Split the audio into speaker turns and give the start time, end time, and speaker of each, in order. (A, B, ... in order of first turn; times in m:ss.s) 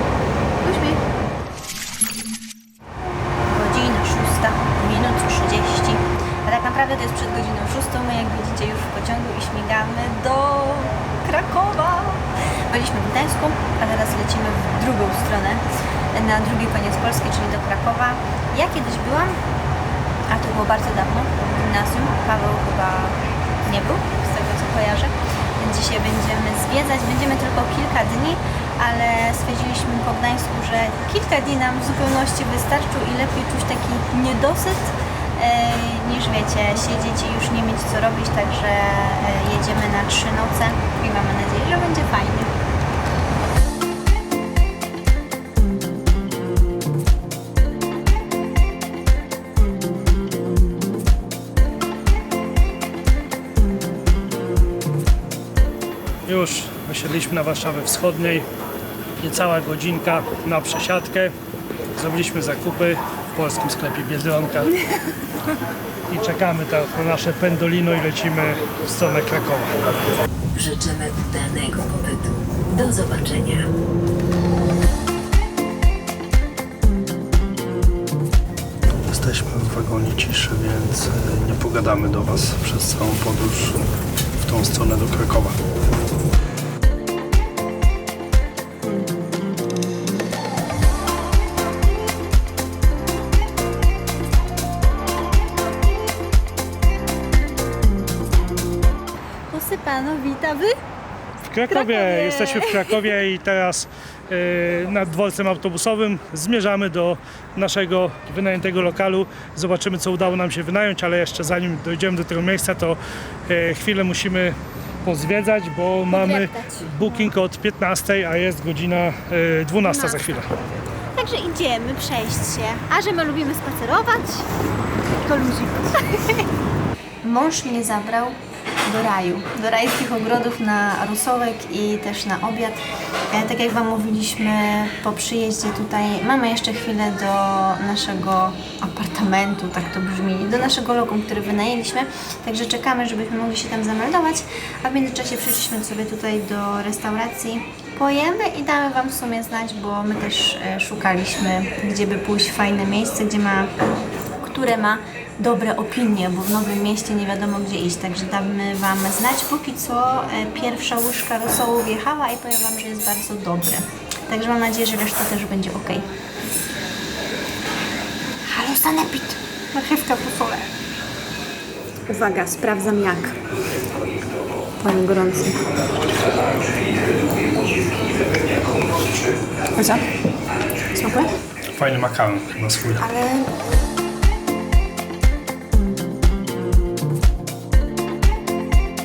0:00.6-0:01.0 A
0:03.4-0:19.4 A
0:20.3-0:42.6 A
0:56.3-0:58.4 B
0:59.2-1:01.3 B
1:02.0-1:04.8 B
1:06.1-1:09.7 B
1:10.5-1:13.7 C
1:19.2-1:23.8 B
1:24.4-1:25.6 B
1:39.5-1:40.8 A
1:41.5-1:53.0 B
1:41.7-1:43.2 A
1:53.5-2:00.4 B
1:56.1-1:57.3 A
1:59.8-2:00.4 A
2:01.1-2:04.5 A
2:05.2-2:06.5 A
2:07.2-2:33.7 A
2:34.4-2:46.1 A
2:48.5-2:50.7 A
2:52.1-2:53.4 A
2:54.8-2:55.7 A
2:59.8-3:00.0 A
3:01.0-3:01.3 A
3:01.8-3:03.0 B
3:03.0-3:03.5 A